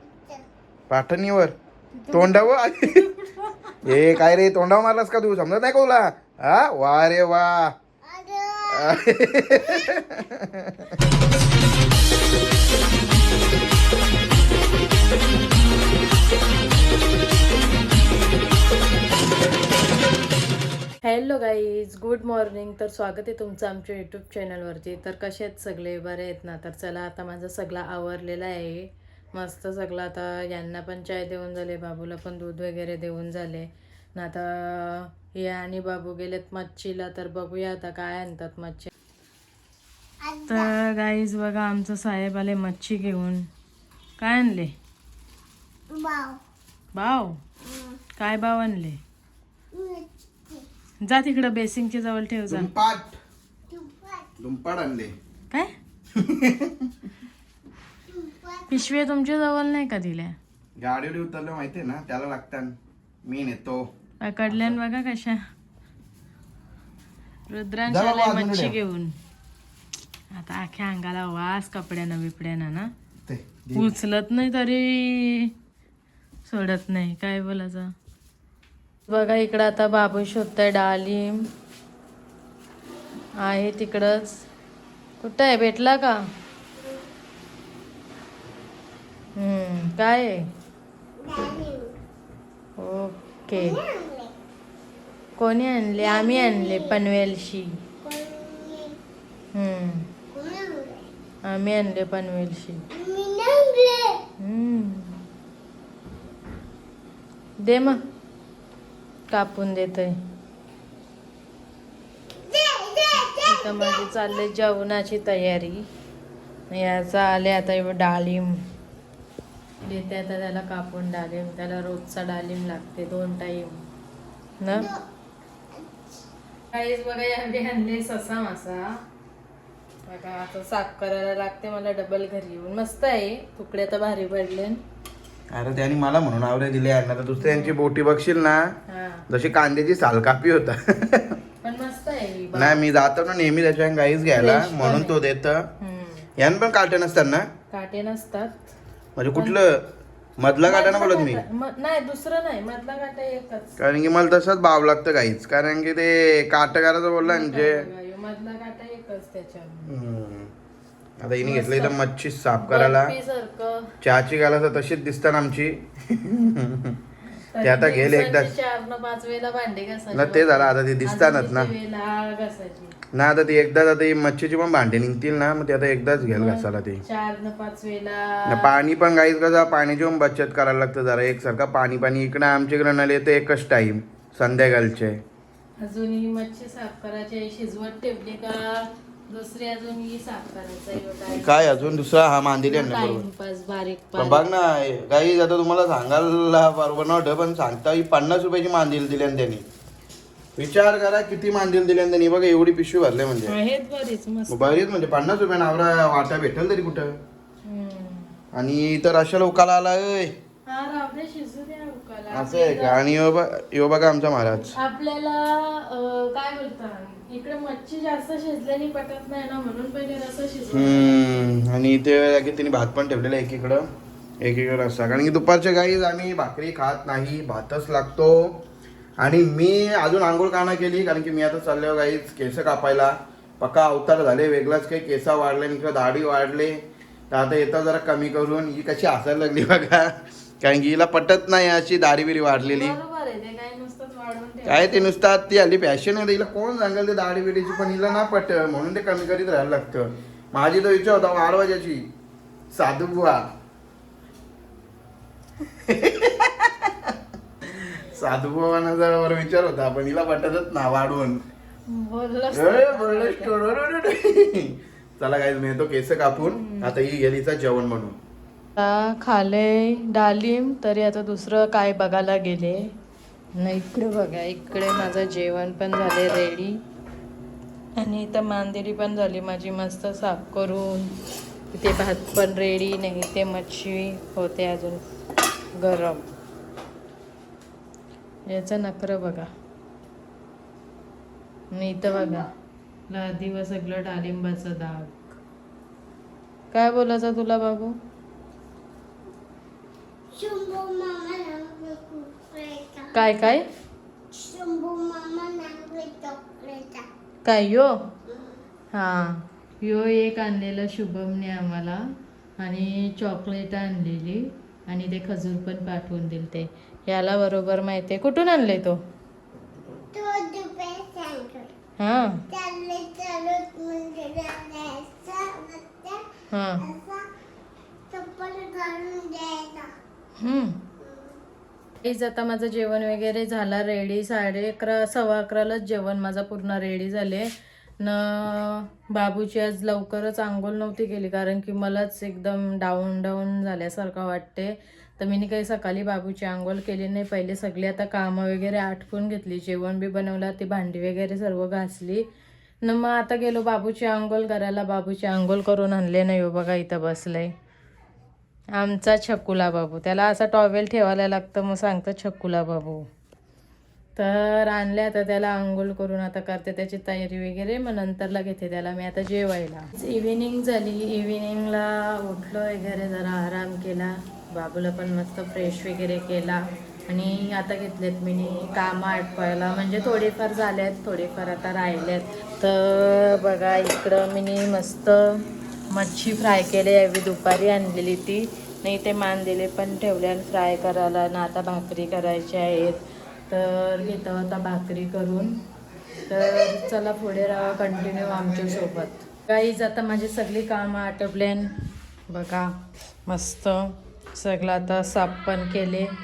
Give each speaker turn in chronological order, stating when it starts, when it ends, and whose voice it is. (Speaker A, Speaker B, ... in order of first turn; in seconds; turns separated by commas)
Speaker A: 0.2-0.4, Speaker B: 0.9-1.5, Speaker C: 1.9-4.1, Speaker B: 2.1-3.1, Speaker B: 3.8-7.7, Speaker A: 8.0-10.0, Speaker B: 8.7-10.9, Speaker C: 21.0-38.9, Speaker A: 40.2-40.7, Speaker C: 40.5-43.5, Speaker C: 44.2-44.7, Speaker A: 45.9-46.4, Speaker C: 46.9-47.4, Speaker A: 47.6-48.0, Speaker C: 48.2-49.0, Speaker A: 49.7-50.6, Speaker C: 51.0-52.7, Speaker B: 52.5-53.1, Speaker A: 53.7-54.3, Speaker B: 54.4-55.1, Speaker B: 56.2-56.9, Speaker A: 58.1-59.0, Speaker C: 58.7-60.3, Speaker B: 60.8-63.9, Speaker C: 64.2-65.4, Speaker B: 64.5-64.8, Speaker C: 67.5-69.1, Speaker B: 67.9-68.8, Speaker C: 70.3-72.9, Speaker B: 73.2-73.9, Speaker C: 73.8-75.5, Speaker C: 76.5-77.9, Speaker C: 79.1-81.3, Speaker C: 83.4-84.4, Speaker C: 85.2-86.2, Speaker C: 89.3-90.4, Speaker A: 91.2-91.9, Speaker C: 92.8-93.8, Speaker A: 93.5-94.3, Speaker C: 95.4-97.8, Speaker A: 96.0-97.0, Speaker A: 98.0-99.0, Speaker C: 99.5-100.1, Speaker A: 100.3-101.0, Speaker C: 101.4-102.8, Speaker A: 102.9-104.2, Speaker C: 104.4-105.2, Speaker C: 107.6-108.0, Speaker C: 109.3-110.1, Speaker A: 112.4-114.1, Speaker C: 113.2-115.8, Speaker C: 116.7-118.5, Speaker C: 119.8-123.8, Speaker C: 124.6-124.9, Speaker A: 124.7-125.0, Speaker A: 125.7-126.2, Speaker C: 126.7-129.0, Speaker C: 130.1-134.8, Speaker B: 135.5-138.7, Speaker C: 137.4-137.8, Speaker C: 138.9-139.2, Speaker B: 139.3-141.3, Speaker C: 141.6-142.8, Speaker B: 142.5-145.7, Speaker C: 144.3-145.2, Speaker C: 145.8-146.2, Speaker B: 146.4-147.5, Speaker C: 147.7-148.6, Speaker B: 149.2-149.8, Speaker B: 150.4-151.4, Speaker C: 150.6-153.8, Speaker B: 153.8-157.9, Speaker C: 157.2-159.9, Speaker B: 159.8-160.5, Speaker B: 161.2-163.1, Speaker C: 161.4-162.0, Speaker C: 162.6-163.9, Speaker B: 164.0-167.0, Speaker C: 167.5-172.9, Speaker B: 167.6-168.5, Speaker B: 170.1-171.7, Speaker B: 173.1-177.0, Speaker C: 176.2-178.7, Speaker B: 178.5-185.2, Speaker C: 185.8-192.1, Speaker B: 191.3-193.2, Speaker C: 192.7-194.4, Speaker B: 194.2-199.6, Speaker B: 200.6-203.6, Speaker C: 203.4-204.9, Speaker B: 204.5-207.2, Speaker C: 207.6-208.3, Speaker B: 208.5-210.3, Speaker C: 210.7-213.0, Speaker B: 212.3-214.8, Speaker C: 214.7-221.2, Speaker B: 220.7-223.9, Speaker B: 224.4-228.6, Speaker B: 229.2-236.8, Speaker B: 237.3-243.0, Speaker C: 242.6-245.2, Speaker B: 244.6-252.1, Speaker B: 252.7-253.4, Speaker B: 255.6-257.1, Speaker B: 257.7-261.4, Speaker C: 261.9-263.5, Speaker B: 262.5-268.2, Speaker C: 266.4-266.9, Speaker C: 268.8-272.9, Speaker C: 273.5-276.8, Speaker C: 278.0-281.1, Speaker C: 281.7-285.0, Speaker C: 285.8-286.3, Speaker C: 288.5-289.5, Speaker C: 291.7-292.5, Speaker A: 292.1-292.5, Speaker C: 293.1-295.4, Speaker C: 296.7-297.9, Speaker A: 300.3-303.2, Speaker C: 303.1-303.6, Speaker A: 304.3-307.1, Speaker C: 307.4-307.9, Speaker A: 308.3-308.6, Speaker C: 308.9-312.0, Speaker C: 312.6-319.0, Speaker A: 320.1-321.7, Speaker C: 322.0-322.4, Speaker A: 322.5-327.3, Speaker C: 326.5-326.9, Speaker A: 328.1-329.9, Speaker C: 330.4-330.8, Speaker A: 331.0-331.4, Speaker C: 332.0-352.2, Speaker C: 352.8-357.5, Speaker C: 358.7-363.0, Speaker C: 364.1-395.5, Speaker C: 396.3-401.7, Speaker C: 402.3-406.1